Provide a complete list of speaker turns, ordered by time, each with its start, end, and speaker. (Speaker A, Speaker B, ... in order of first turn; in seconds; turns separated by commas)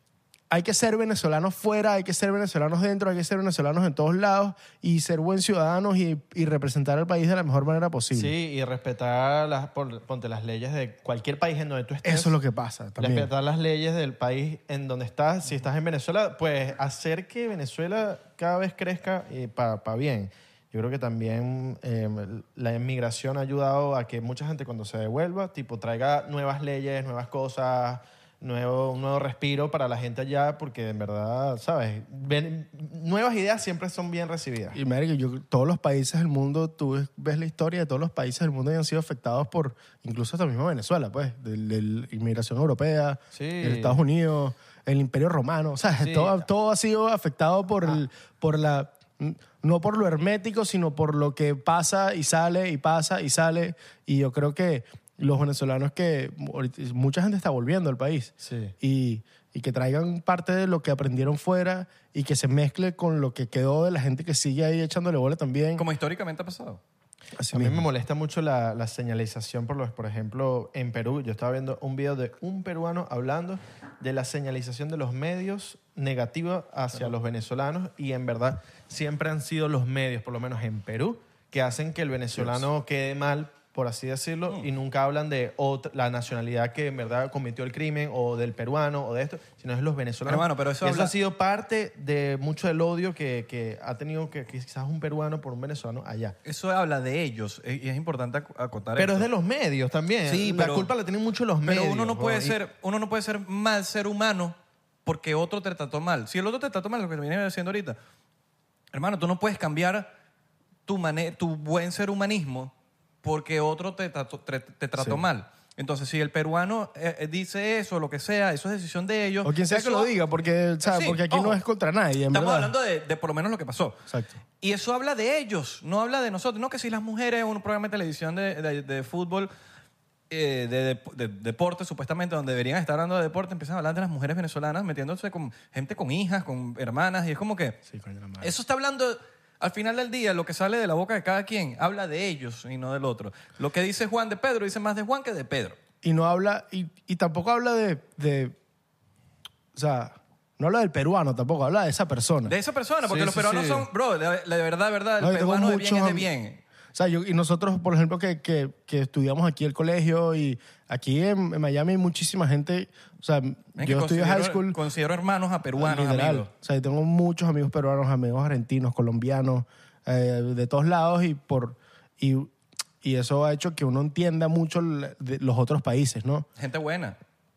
Speaker A: 0.5-8.3, Speaker B: 8.1-12.4, Speaker A: 12.0-13.3, Speaker B: 13.0-34.8, Speaker A: 34.7-65.9, Speaker B: 43.3-44.0, Speaker B: 46.0-46.5, Speaker B: 58.4-58.7, Speaker C: 65.8-66.8, Speaker A: 67.4-67.8, Speaker B: 67.5-96.3, Speaker C: 90.3-91.1, Speaker C: 96.5-99.3, Speaker B: 99.0-102.6, Speaker C: 100.3-100.9, Speaker C: 101.7-108.0, Speaker C: 108.9-110.1, Speaker C: 110.9-120.1, Speaker A: 115.0-115.2, Speaker A: 119.4-122.7, Speaker C: 120.8-121.6, Speaker C: 122.3-124.0, Speaker C: 124.6-129.5, Speaker C: 130.3-137.8, Speaker A: 137.9-138.5, Speaker C: 138.4-145.8, Speaker A: 146.0-148.6, Speaker A: 149.7-152.5, Speaker C: 152.4-156.6, Speaker B: 153.1-153.9, Speaker A: 155.2-156.3, Speaker A: 156.9-164.8, Speaker C: 163.8-166.5, Speaker A: 165.8-176.5, Speaker C: 176.6-177.2